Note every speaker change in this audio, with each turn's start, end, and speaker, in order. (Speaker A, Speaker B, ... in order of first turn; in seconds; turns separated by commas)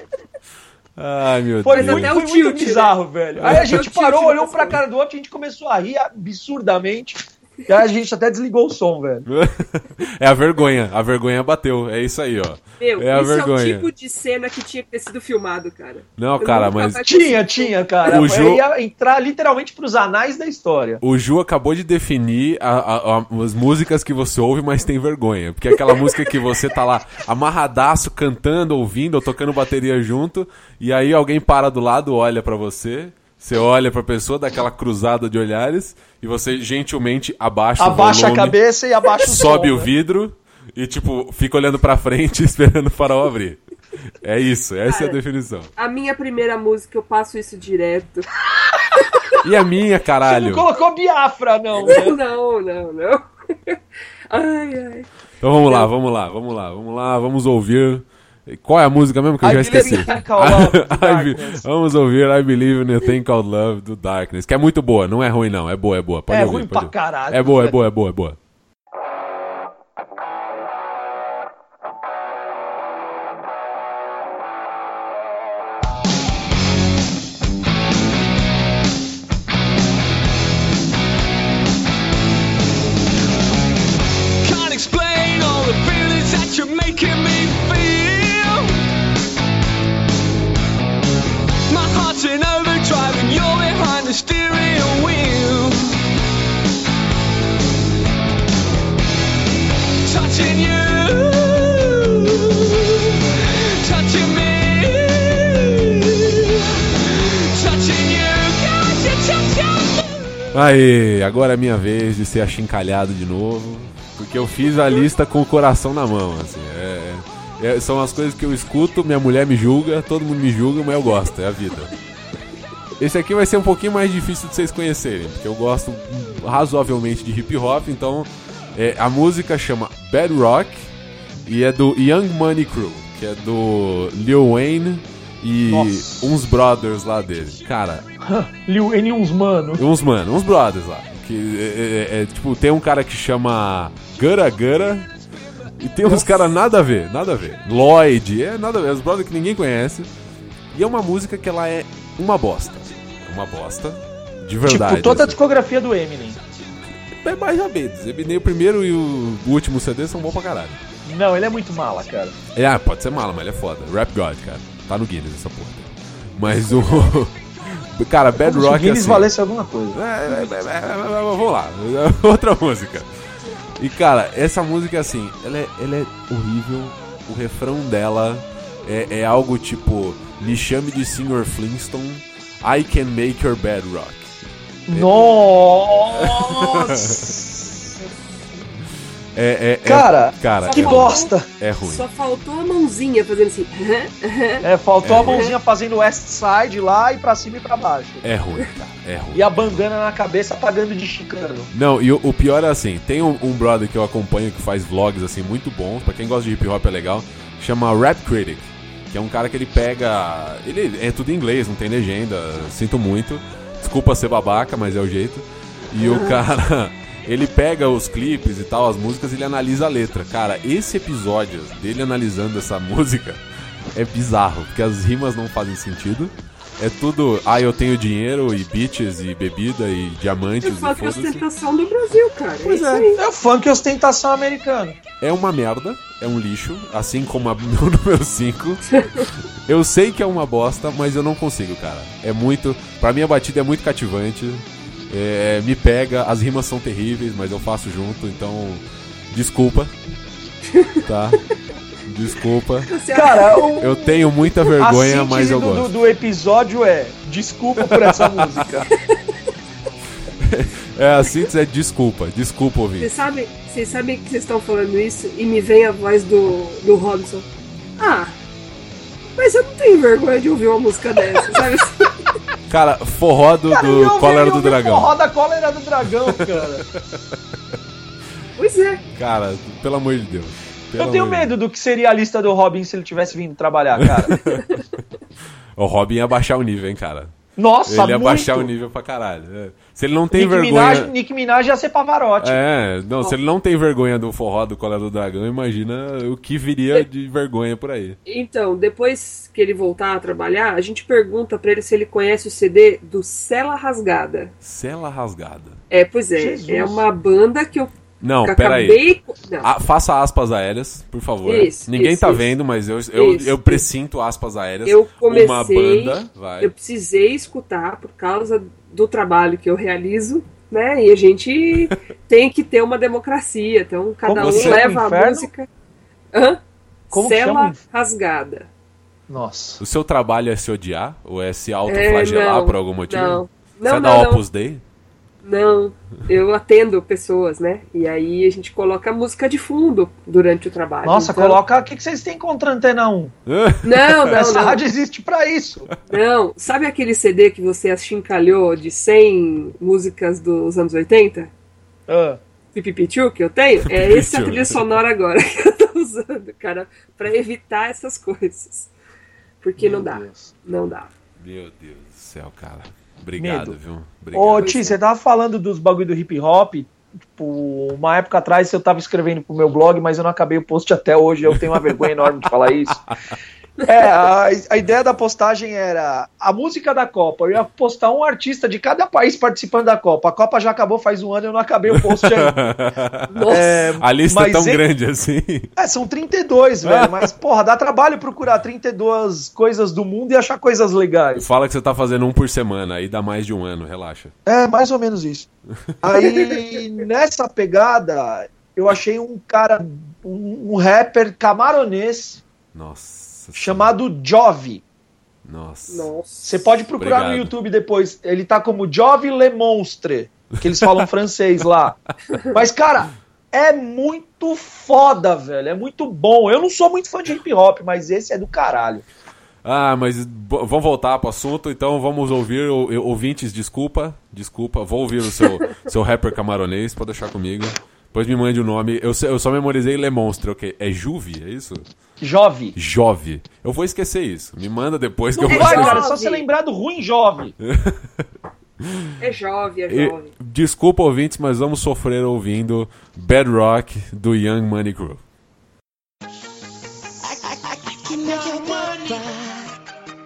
Speaker A: 1.0-2.1, Speaker B: 1.6-9.3, Speaker C: 1.7-4.8, Speaker A: 3.4-3.8, Speaker A: 9.3-13.9, Speaker C: 12.8-18.2, Speaker A: 16.2-17.1, Speaker B: 17.0-21.0, Speaker A: 18.1-18.6, Speaker A: 21.0-38.6, Speaker B: 37.8-39.9, Speaker A: 39.2-43.6, Speaker A: 44.2-45.7, Speaker C: 44.9-45.2, Speaker C: 45.8-48.3, Speaker A: 49.4-50.7, Speaker B: 50.2-52.2, Speaker C: 51.9-53.8, Speaker C: 54.3-55.1, Speaker A: 55.4-68.4, Speaker B: 59.4-61.6, Speaker C: 59.7-60.2, Speaker B: 66.3-67.8, Speaker D: 84.4-88.7, Speaker D: 91.7-96.0, Speaker D: 100.0-110.5, Speaker A: 110.5-121.9, Speaker A: 123.0-130.9, Speaker A: 131.5-138.1, Speaker B: 135.7-136.3, Speaker B: 138.2-139.8, Speaker A: 139.8-145.1, Speaker A: 145.8-150.1, Speaker A: 150.7-155.4, Speaker B: 154.7-156.4, Speaker A: 157.2-160.8, Speaker B: 161.1-162.3, Speaker A: 162.5-169.3, Speaker B: 168.4-170.0, Speaker A: 169.9-173.1, Speaker A: 173.8-184.3, Speaker B: 184.9-187.7, Speaker A: 184.9-185.3, Speaker A: 186.1-187.4, Speaker A: 189.4-192.0, Speaker B: 189.8-191.5, Speaker C: 190.6-194.7, Speaker B: 194.6-198.2, Speaker A: 195.0-195.4, Speaker C: 195.2-195.5, Speaker A: 198.2-199.9, Speaker B: 199.3-201.7, Speaker A: 201.7-223.4, Speaker C: 216.0-216.4, Speaker A: 223.9-231.4, Speaker C: 230.6-233.2, Speaker A: 232.7-233.1, Speaker B: 233.2-235.0, Speaker A: 235.2-249.9, Speaker C: 250.7-251.0, Speaker A: 251.1-251.4, Speaker A: 252.1-252.9, Speaker C: 252.9-253.8, Speaker B: 253.1-258.9, Speaker A: 253.8-255.9, Speaker A: 257.9-258.7, Speaker A: 260.4-263.1, Speaker C: 263.0-267.5, Speaker C: 268.0-268.4, Speaker C: 269.4-272.1, Speaker A: 272.7-275.1, Speaker B: 273.7-276.8, Speaker A: 276.3-277.0, Speaker C: 278.6-279.0, Speaker A: 279.2-281.5, Speaker B: 281.0-284.4, Speaker A: 284.0-284.8, Speaker A: 285.8-287.3, Speaker B: 287.6-288.7, Speaker A: 287.9-291.1, Speaker B: 290.3-292.6, Speaker A: 292.4-298.2, Speaker C: 298.3-304.5, Speaker A: 304.6-305.8, Speaker C: 305.9-307.9, Speaker B: 306.4-307.0, Speaker A: 308.2-309.0, Speaker C: 308.4-309.7, Speaker A: 309.6-316.7, Speaker C: 311.4-312.5, Speaker C: 313.1-313.8, Speaker C: 314.9-325.7, Speaker B: 324.2-325.5, Speaker A: 324.4-324.9, Speaker C: 326.3-328.7, Speaker B: 327.1-327.8, Speaker B: 329.3-329.8, Speaker A: 329.8-334.8, Speaker C: 331.9-334.4, Speaker C: 335.4-341.6, Speaker B: 341.0-343.3, Speaker A: 343.5-344.4, Speaker C: 343.8-344.8, Speaker B: 344.3-345.9, Speaker C: 346.1-351.5, Speaker B: 352.1-352.4, Speaker C: 352.7-358.9, Speaker A: 353.9-354.8, Speaker C: 359.6-361.1, Speaker B: 359.8-360.5, Speaker A: 361.4-364.7, Speaker B: 363.4-363.8, Speaker B: 364.3-373.0, Speaker C: 364.6-365.0, Speaker B: 373.9-382.6, Speaker A: 381.9-385.7, Speaker C: 383.3-383.8, Speaker B: 383.5-384.8, Speaker B: 385.8-391.5, Speaker A: 386.9-387.3, Speaker A: 391.4-394.3, Speaker B: 394.5-395.5, Speaker B: 396.0-402.4, Speaker A: 402.7-403.9, Speaker B: 403.6-404.8, Speaker A: 405.4-406.1, Speaker C: 405.9-406.5, Speaker B: 406.4-412.0, Speaker A: 407.0-407.5, Speaker B: 412.5-419.0, Speaker A: 419.6-431.8, Speaker B: 432.2-432.8, Speaker A: 432.8-436.0, Speaker B: 435.4-437.5, Speaker C: 435.4-436.4, Speaker A: 437.6-438.0, Speaker A: 438.8-439.1, Speaker C: 439.2-440.3, Speaker A: 439.9-445.2, Speaker E: 447.2-449.8